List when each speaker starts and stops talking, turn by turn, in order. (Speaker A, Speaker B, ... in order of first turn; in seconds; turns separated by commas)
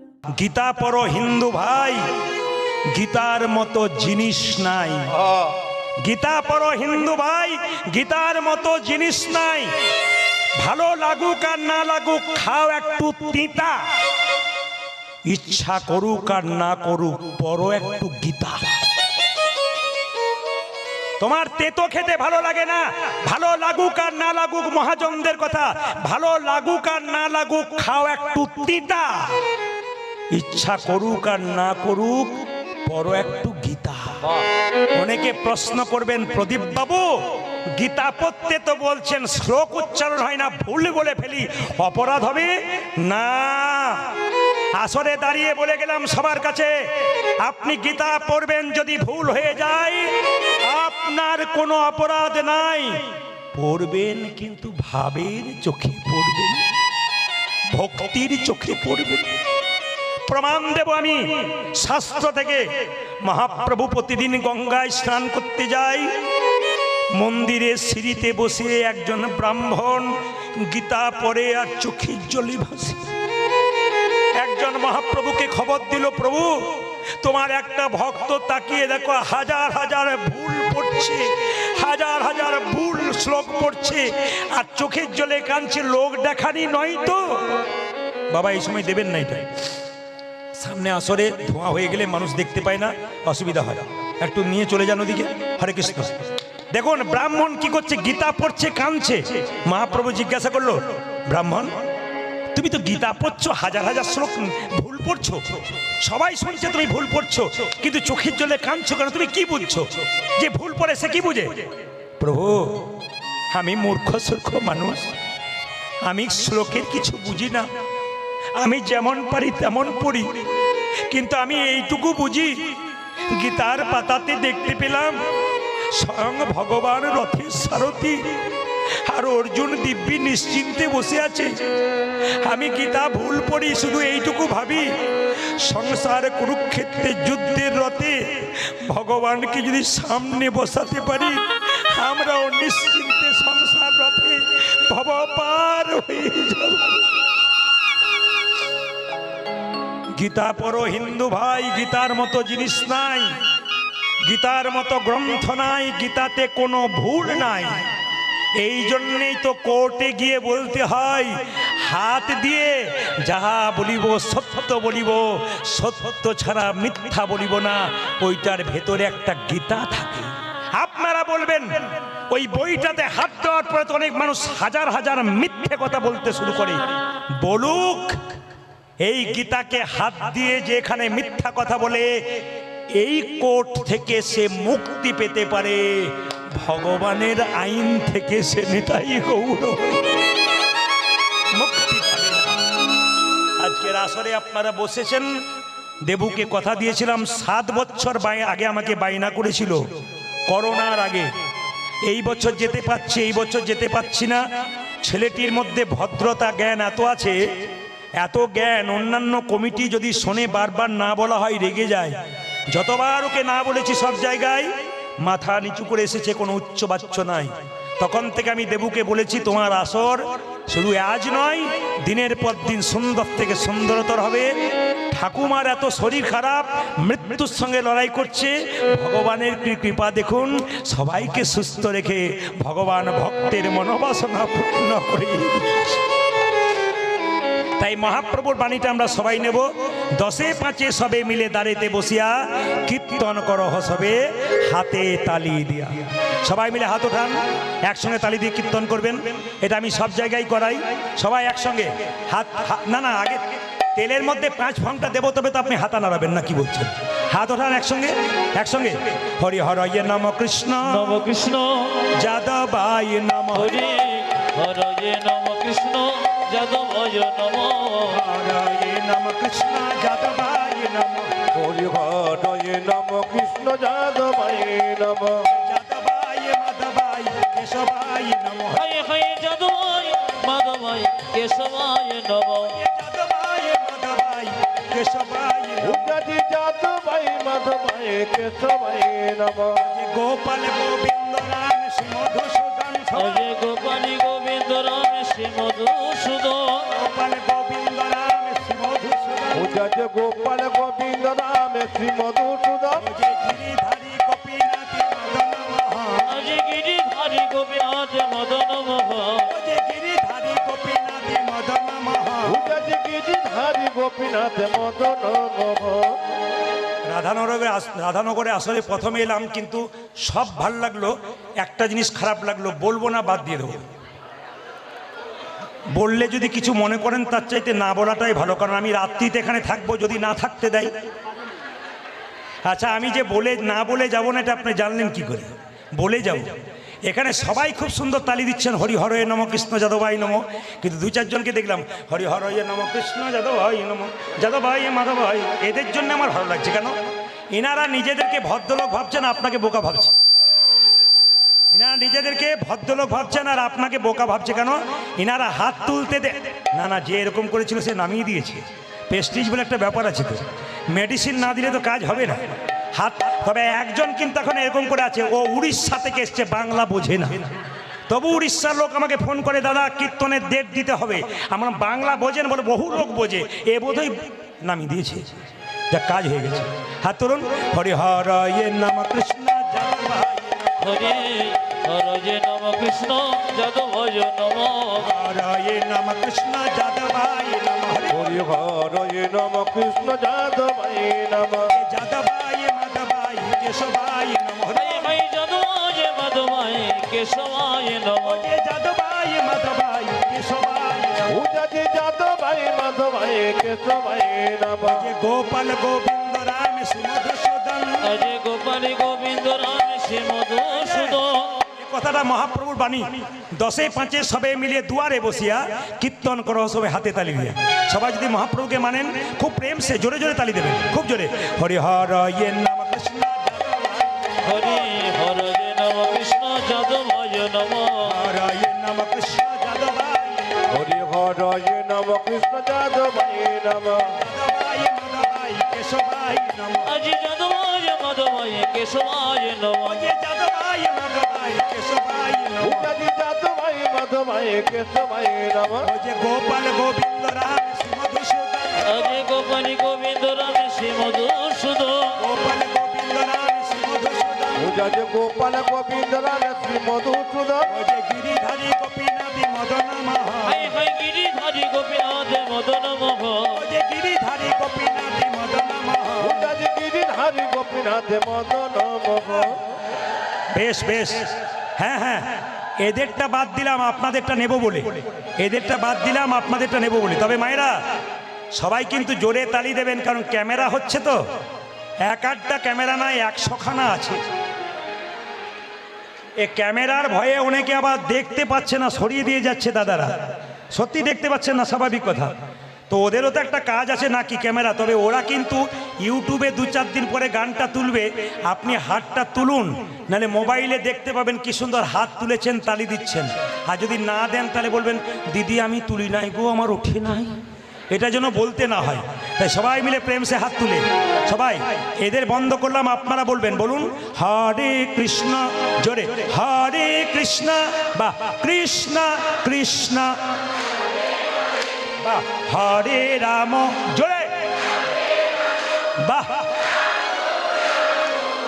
Speaker A: 0.2-2.1, Speaker A: 2.9-5.2, Speaker A: 6.0-9.7, Speaker A: 10.6-13.8, Speaker A: 15.2-18.8, Speaker A: 21.2-29.4, Speaker A: 30.3-34.3, Speaker A: 34.9-44.2, Speaker A: 44.7-56.6, Speaker A: 57.7-59.4, Speaker A: 60.3-62.7, Speaker A: 63.2-66.1, Speaker A: 67.1-73.1, Speaker A: 74.3-87.6, Speaker A: 88.3-89.5, Speaker A: 90.5-101.8, Speaker A: 102.5-112.9, Speaker A: 113.5-115.1, Speaker A: 116.1-117.7, Speaker A: 118.6-120.4, Speaker A: 121.1-122.7, Speaker A: 123.3-125.2, Speaker A: 125.9-128.2, Speaker A: 129.0-131.5, Speaker A: 132.4-134.9, Speaker A: 135.6-147.0, Speaker A: 150.1-153.4, Speaker A: 154.2-157.9, Speaker A: 158.6-178.4, Speaker A: 179.0-182.1, Speaker A: 182.9-190.2, Speaker A: 191.5-192.6, Speaker A: 193.6-195.3, Speaker A: 196.0-199.8, Speaker A: 200.5-201.3, Speaker A: 202.0-204.4, Speaker A: 205.0-207.4, Speaker A: 208.2-212.2, Speaker A: 212.7-224.5, Speaker A: 225.1-235.9, Speaker A: 237.8-261.2, Speaker B: 260.8-262.1, Speaker A: 262.1-263.8, Speaker B: 263.5-268.2, Speaker A: 268.1-271.4, Speaker C: 271.5-275.5, Speaker A: 275.5-278.8, Speaker B: 278.7-282.7, Speaker A: 282.7-286.1, Speaker C: 285.8-289.8, Speaker A: 289.8-293.4, Speaker B: 293.1-296.9, Speaker A: 296.9-299.7, Speaker C: 299.5-303.1, Speaker A: 303.0-306.4, Speaker B: 306.3-309.5, Speaker A: 309.5-312.8, Speaker C: 312.4-316.2, Speaker A: 317.1-323.9, Speaker A: 325.9-330.9, Speaker A: 332.6-347.0, Speaker A: 347.5-350.1, Speaker A: 351.7-367.6, Speaker A: 368.1-375.4, Speaker A: 375.9-381.1, Speaker B: 380.8-385.1, Speaker A: 385.0-388.4, Speaker C: 388.1-391.7, Speaker A: 391.7-395.1, Speaker B: 394.7-398.5, Speaker A: 398.2-401.4, Speaker C: 401.3-405.1, Speaker A: 404.9-408.0, Speaker B: 408.0-411.6, Speaker A: 410.8-411.2, Speaker A: 411.8-424.9, Speaker B: 424.4-428.2, Speaker A: 428.0-430.6, Speaker C: 430.7-434.1, Speaker A: 434.1-436.9, Speaker B: 436.9-440.1, Speaker A: 439.8-442.9, Speaker C: 442.6-445.9, Speaker A: 445.8-449.2, Speaker B: 448.8-452.2, Speaker A: 452.2-454.7, Speaker C: 454.6-457.7, Speaker A: 457.7-460.7, Speaker B: 460.4-463.6, Speaker A: 463.5-466.5, Speaker C: 466.2-469.6, Speaker A: 470.5-477.8, Speaker A: 478.5-481.2, Speaker A: 482.0-484.2, Speaker A: 486.4-492.3, Speaker A: 492.9-507.4, Speaker A: 507.9-520.2, Speaker A: 522.0-524.4, Speaker A: 526.0-526.5